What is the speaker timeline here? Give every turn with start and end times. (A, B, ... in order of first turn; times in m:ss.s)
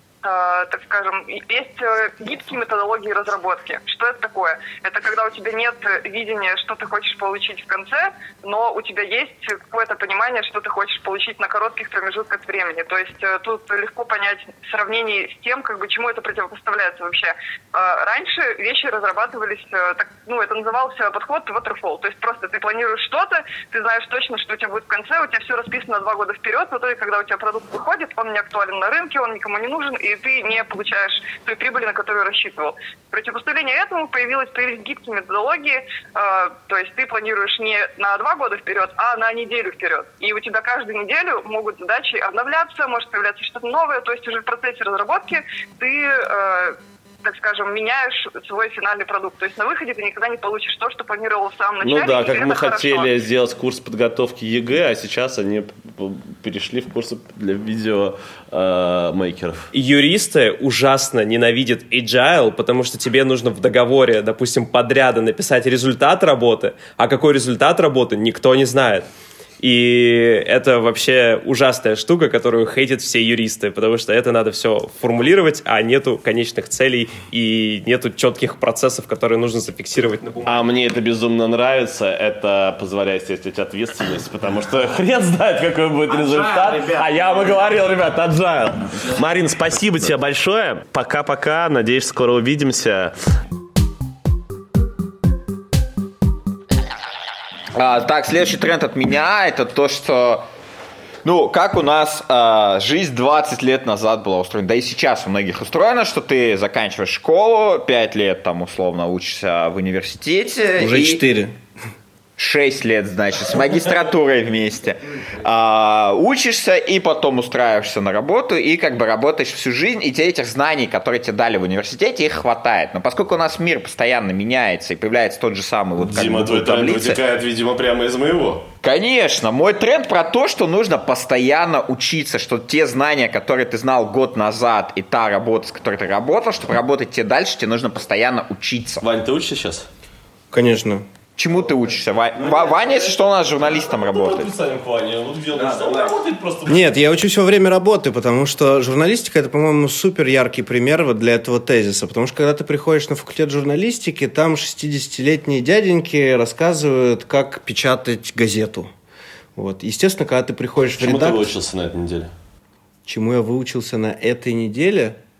0:00.2-0:53.1 A
0:51.8-0:59.7 B
0:59.7-1:09.0 C
1:09.6-1:20.6 C
1:20.4-1:33.1 B
1:37.7-1:40.4 D
1:41.2-1:51.2 D
1:50.8-1:51.6 E
1:52.4-2:07.2 D
2:06.0-2:08.7 B
2:08.8-2:19.0 D
2:19.0-2:19.9 B
2:20.5-2:21.0 E
2:21.4-2:24.5 D
2:22.4-2:26.9 B
2:26.7-2:38.9 E
2:39.6-2:41.5 E
2:41.0-2:42.3 B
2:43.0-2:45.2 E